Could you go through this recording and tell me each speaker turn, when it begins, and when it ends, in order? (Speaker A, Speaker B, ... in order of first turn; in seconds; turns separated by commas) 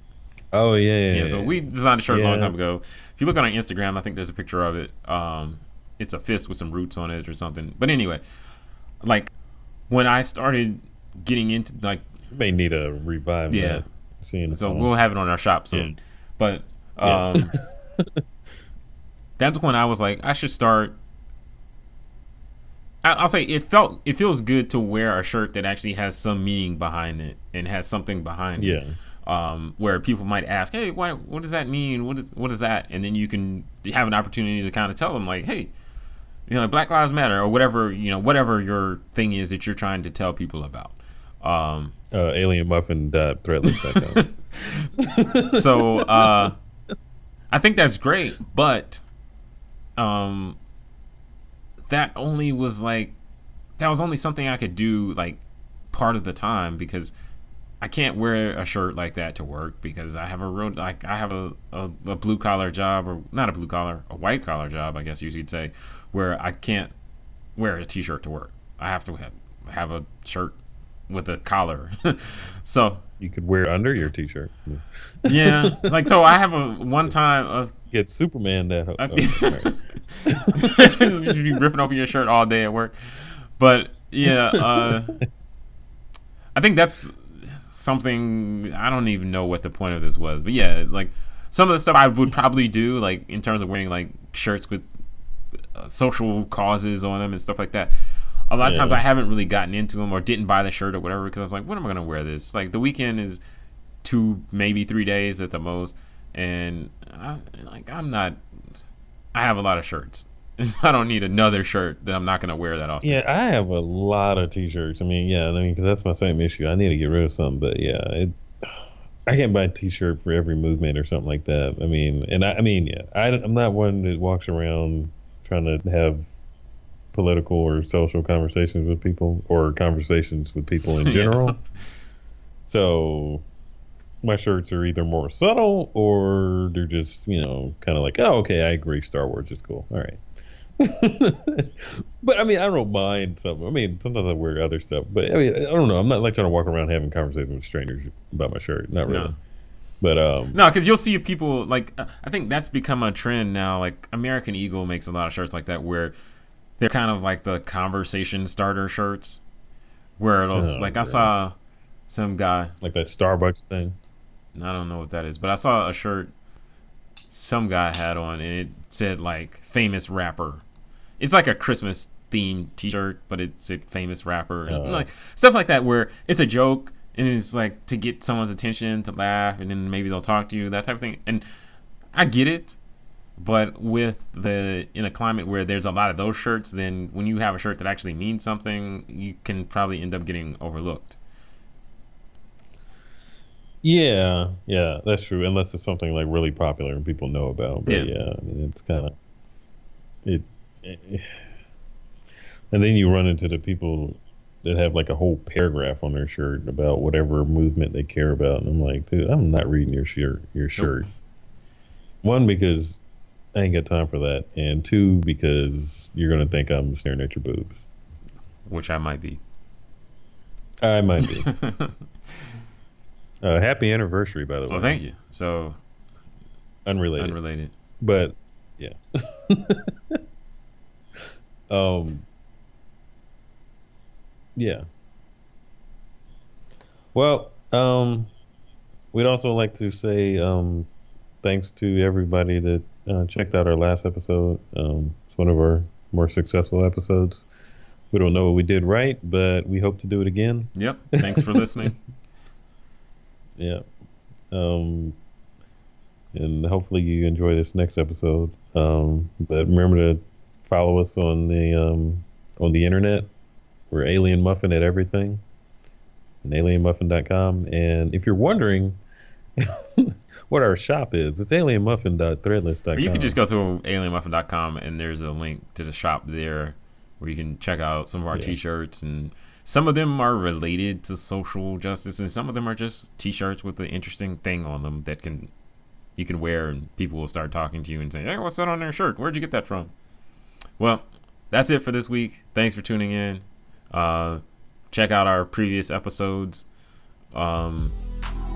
Speaker A: 0.5-1.6, Speaker B: 1.1-8.2, Speaker A: 2.1-2.5, Speaker B: 9.0-9.3, Speaker B: 9.9-12.1, Speaker A: 12.3-14.9, Speaker B: 13.5-13.8, Speaker B: 14.5-17.6, Speaker A: 17.0-18.2, Speaker B: 19.4-21.0, Speaker B: 23.0-35.7, Speaker A: 28.6-28.9, Speaker B: 36.5-42.0, Speaker A: 42.1-44.2, Speaker B: 43.7-44.9, Speaker A: 45.0-46.5, Speaker B: 45.5-46.5, Speaker B: 47.5-49.0, Speaker B: 50.0-50.6, Speaker B: 51.9-53.1, Speaker B: 53.8-57.1, Speaker B: 57.8-66.9, Speaker B: 67.6-70.6, Speaker B: 71.1-73.0, Speaker A: 73.2-75.9, Speaker B: 75.2-77.7, Speaker A: 77.9-79.8, Speaker B: 79.0-83.0, Speaker A: 80.3-81.3, Speaker B: 83.6-85.2, Speaker A: 84.6-85.2, Speaker B: 86.6-94.9, Speaker B: 95.8-98.0, Speaker B: 98.5-103.4, Speaker A: 98.6-99.0, Speaker B: 104.0-108.4, Speaker B: 109.3-113.2, Speaker A: 113.0-126.3, Speaker A: 127.1-131.6, Speaker B: 130.9-131.6, Speaker A: 132.7-133.5, Speaker A: 134.2-140.2, Speaker A: 140.8-149.4, Speaker B: 149.1-149.3, Speaker A: 150.0-150.6, Speaker B: 150.5-156.1, Speaker B: 156.8-159.4, Speaker B: 160.2-161.6, Speaker A: 160.5-161.3, Speaker B: 162.1-162.7, Speaker A: 162.8-164.0, Speaker B: 164.6-166.3, Speaker B: 167.3-170.6, Speaker B: 171.2-181.4, Speaker A: 174.7-175.1, Speaker B: 182.1-182.8, Speaker B: 183.4-191.2, Speaker A: 193.8-199.1, Speaker A: 200.2-201.5, Speaker A: 202.7-211.1, Speaker B: 210.8-211.0, Speaker A: 212.2-213.0, Speaker A: 213.6-217.8, Speaker B: 218.7-219.4, Speaker A: 220.8-221.5, Speaker B: 221.2-222.0, Speaker A: 223.4-225.0, Speaker B: 224.7-225.8, Speaker A: 226.8-227.4, Speaker B: 227.2-227.7, Speaker A: 228.0-230.2, Speaker A: 231.7-232.3, Speaker A: 234.6-234.8, Speaker A: 237.1-238.3, Speaker A: 239.1-240.9, Speaker A: 241.4-247.5, Speaker A: 248.1-251.5, Speaker B: 250.8-252.0, Speaker A: 253.6-253.8, Speaker A: 254.5-255.2, Speaker A: 256.3-263.3, Speaker A: 263.9-265.4, Speaker A: 266.4-269.0, Speaker A: 269.6-273.4, Speaker B: 272.9-285.5, Speaker B: 286.2-289.9, Speaker B: 290.8-296.7, Speaker B: 297.3-297.9